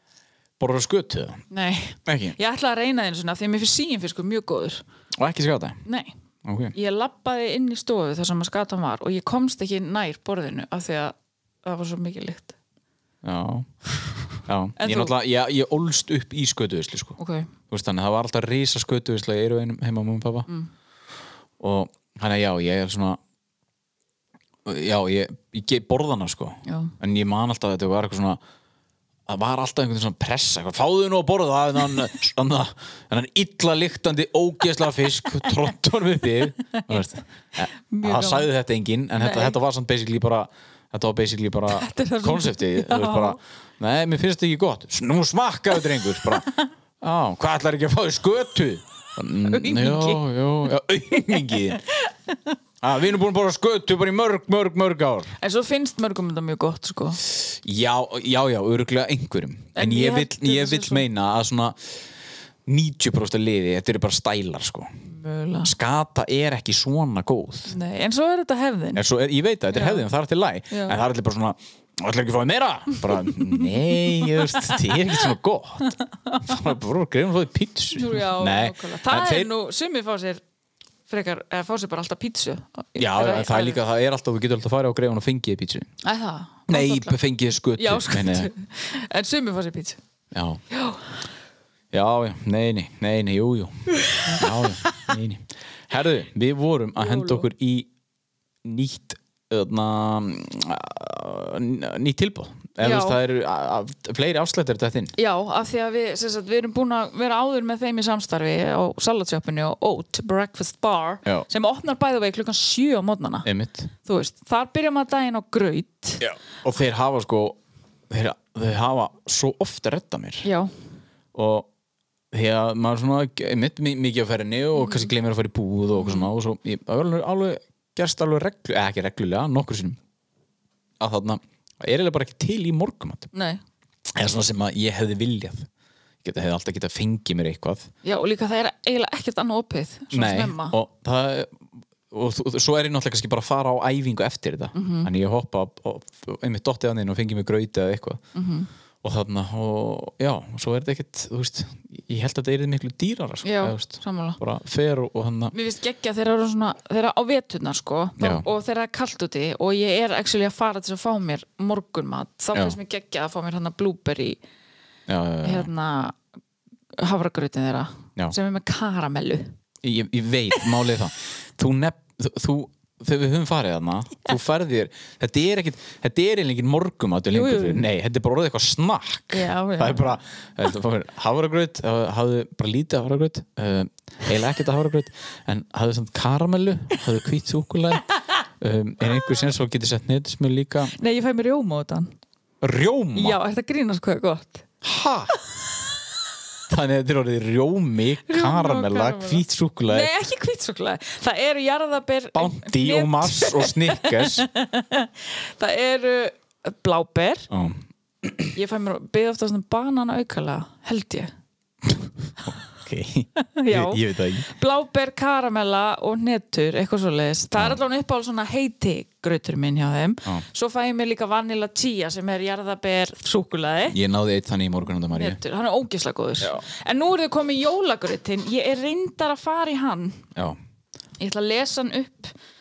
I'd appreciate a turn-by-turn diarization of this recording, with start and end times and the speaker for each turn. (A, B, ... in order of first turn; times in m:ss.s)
0:00.6-0:01.4 A
0:01.5-0:04.8 B
0:02.0-0:02.4 A
0:05.2-0:05.8 A
0:05.8-0:06.1 B
0:06.4-0:06.7 A
0:06.7-0:12.5 B
0:13.2-0:13.7 A
0:14.4-0:17.2 A
0:14.8-0:15.1 B
0:17.2-0:17.5 B
0:17.7-0:20.5 A
0:21.6-0:23.2 A
0:24.6-0:28.4 A
0:26.6-0:26.9 B
0:29.3-0:46.5 A
0:36.7-0:37.0 B
0:37.9-0:38.5 B
0:39.2-0:39.6 B
0:41.7-0:43.4 B
0:46.3-0:46.6 B
0:47.0-0:51.8 A
0:49.4-0:50.2 B
0:51.3-0:52.4 B
0:52.8-0:55.3 A
0:55.4-0:57.2 B
0:57.3-1:01.8 A
0:59.7-1:01.0 B
1:02.6-1:04.9 A
1:05.0-1:05.7 B
1:05.6-1:07.8 A
1:07.7-1:09.0 B
1:08.9-1:19.5 A
1:09.7-1:10.0 B
1:10.7-1:11.0 B
1:13.8-1:15.0 B
1:15.9-1:16.6 B
1:17.9-1:20.4 B
1:21.1-1:23.8 B
1:23.0-1:25.9 A
1:26.0-1:27.2 B
1:26.7-1:28.5 A
1:27.8-1:30.0 B
1:30.3-1:30.6 A
1:30.7-1:31.1 B
1:31.9-1:37.9 A
1:34.1-1:35.1 B
1:37.0-1:37.4 B
1:38.6-1:45.1 A
1:42.8-1:43.2 B
1:45.2-1:53.5 B
1:53.4-1:53.9 A
1:54.0-1:56.2 B
1:56.2-1:57.6 A
1:58.1-2:00.4 A
2:00.4-2:00.7 B
2:01.3-2:01.7 A
2:02.3-2:10.0 A
2:04.8-2:05.1 B
2:06.0-2:06.3 B
2:11.0-2:13.3 A
2:13.3-2:13.6 B
2:14.1-2:15.7 A
2:16.2-2:17.9 A
2:18.0-2:20.8 B
2:20.1-2:28.2 A
2:24.7-2:25.1 B
2:28.3-2:28.7 B
2:29.0-2:35.5 A
2:33.4-2:34.4 B
2:35.5-2:44.4 B
2:38.2-2:38.4 A
2:45.1-2:45.7 A
2:45.4-2:46.2 B
2:46.9-2:49.6 B
2:49.8-3:08.0 A
2:57.3-2:57.8 B
2:59.3-3:00.2 B
3:08.6-3:10.9 A
3:11.0-3:12.1 B
3:12.6-3:13.4 A
3:13.1-3:14.6 B
3:14.8-3:15.3 A
3:16.7-3:20.1 A
3:18.3-3:27.5 B
3:22.3-3:24.5 A
3:27.5-3:28.5 A
3:28.5-3:31.3 B
3:32.4-3:34.5 A
3:33.5-3:44.0 B
3:43.9-3:45.4 A
3:45.1-3:50.2 B
3:51.2-3:52.3 B